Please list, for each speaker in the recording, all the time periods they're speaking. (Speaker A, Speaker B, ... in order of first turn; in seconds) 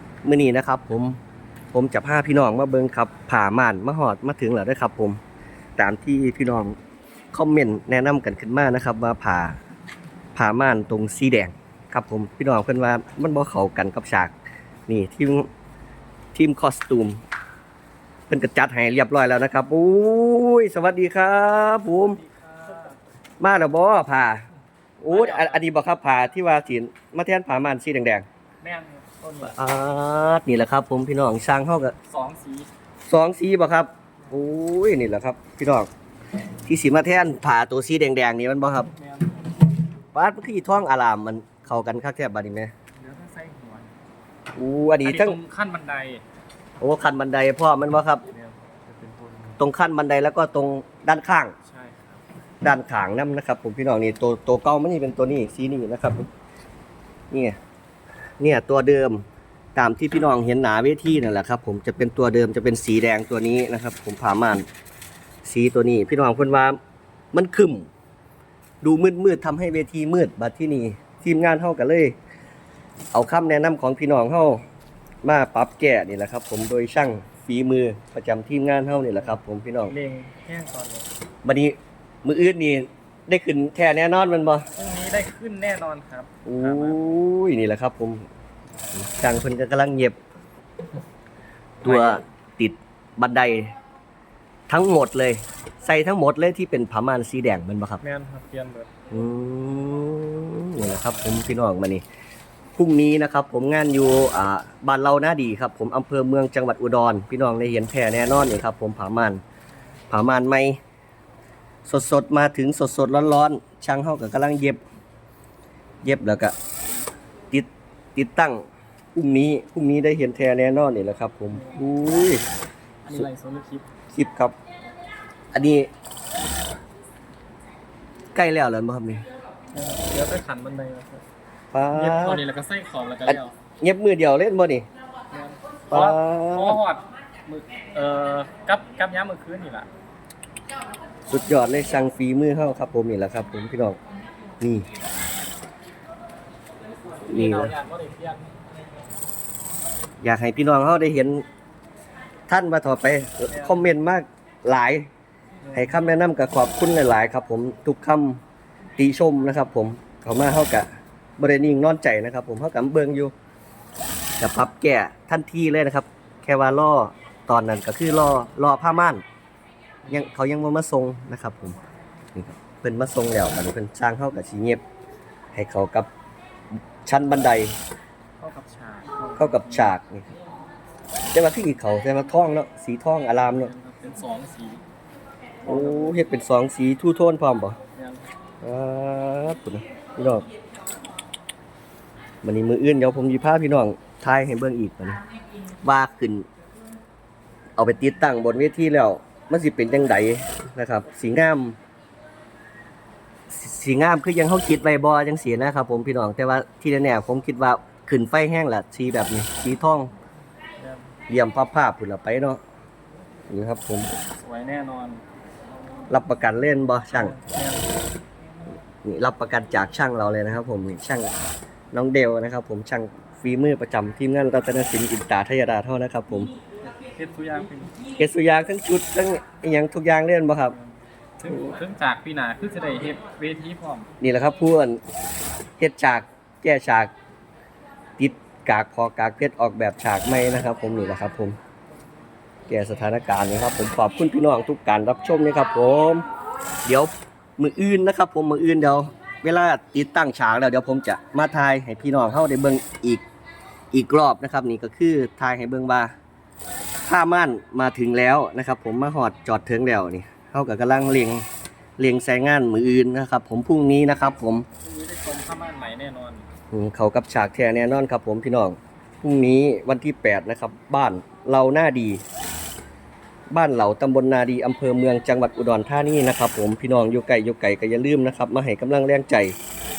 Speaker A: 0.2-1.2, 1.7-5.2, 5.8-6.8, 7.3-9.6, 10.3-14.3, 14.9-15.5, 16.3-17.2, 18.3-22.2, 23.4-24.4, 25.0-28.2, 29.4-31.9, 33.1-35.9, 36.7-38.9, 40.1-42.7, 44.5-45.4, 46.8-48.2, 49.6-51.5, 52.6-56.3, 57.3-57.6, 58.4-64.7, 65.4-66.8, 67.3-67.9, 68.8-72.1, 73.1-74.6, 75.2-79.9, 81.4-84.7, 86.4-88.2, 88.9-90.2, 91.8-93.7, 94.7-98.0, 99.1-102.0, 102.8-109.4, 110.1-110.8, 111.8-114.8, 116.0-116.5, 117.5-122.4, 124.1-124.5, 125.5-125.9, 128.3-129.2, 131.7-132.4, 133.3-134.8, 135.9-136.8, 141.3-144.0, 144.6-144.9, 147.3-147.7, 150.2-151.4, 152.5-155.1, 155.7-158.4, 159.0-163.3, 164.4-169.2, 170.1-171.8, 172.3-174.8, 175.5-176.1, 177.0-177.7, 179.4-180.3, 181.3-183.7, 185.7-187.8, 188.6-190.4, 192.4-195.2, 195.8-196.5, 197.8-201.8, 203.5-210.1, 211.3-212.6, 213.5-214.1, 216.1-217.3, 219.0-221.3, 221.9-226.5, 228.2-230.8, 234.2-235.0, 235.8-237.1, 238.2-241.6, 242.7-246.2, 246.8-253.2, 253.9-256.1, 257.0-261.4, 262.0-264.6, 266.7-272.2, 273.5-279.5
Speaker B: 21.9-23.0, 25.1-25.6, 28.6-29.6, 32.1-32.7, 38.9-39.6, 43.0-43.9, 45.0-46.2, 48.3-49.6, 51.6-52.2, 79.9-81.1, 84.8-87.0, 91.8-92.2, 98.0-98.9, 121.5-121.8, 123.0-123.8, 129.7-131.2, 131.9-133.5, 135.3-139.9, 147.2-148.5, 153.5-153.9, 155.6-155.9, 178.4-179.9, 183.3-184.8, 185.6-186.2, 187.9-188.3, 210.8-211.1, 214.3-215.2, 217.1-218.0, 226.8-228.0, 230.7-234.1, 264.8-266.5